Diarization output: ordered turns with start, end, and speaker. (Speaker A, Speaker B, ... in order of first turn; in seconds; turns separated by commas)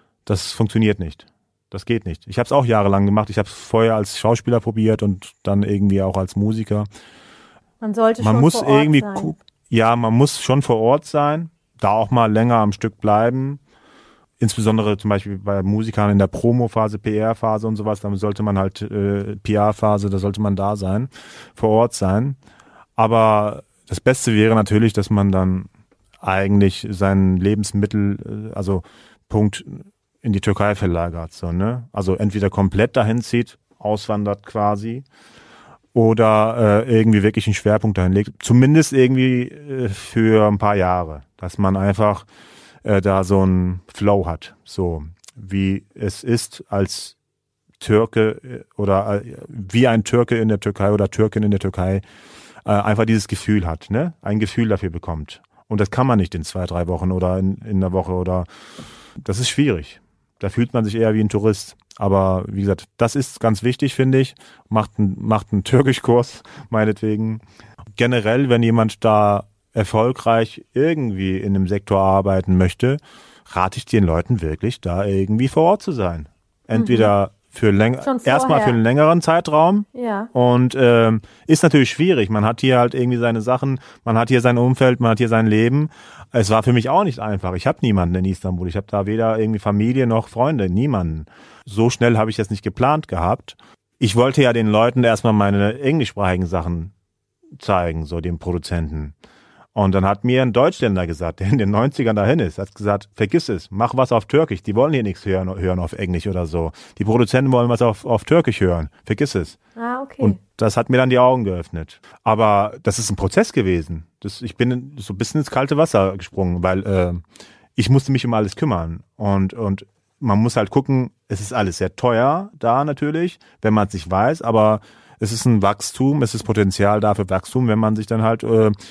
Speaker A: 0.2-6.9, Speaker B: 7.8-9.3, Speaker A: 8.2-13.6, Speaker A: 14.4-22.4, Speaker A: 23.0-25.7, Speaker A: 26.2-35.0, Speaker A: 35.9-42.3, Speaker A: 42.8-47.1, Speaker A: 47.8-52.0, Speaker A: 52.6-58.5, Speaker A: 59.2-67.4, Speaker A: 68.0-96.9, Speaker B: 76.7-77.1, Speaker B: 78.0-78.8, Speaker B: 79.9-80.3, Speaker A: 97.6-99.1, Speaker A: 99.7-109.6, Speaker B: 109.8-110.4, Speaker A: 110.2-117.2, Speaker A: 117.8-128.8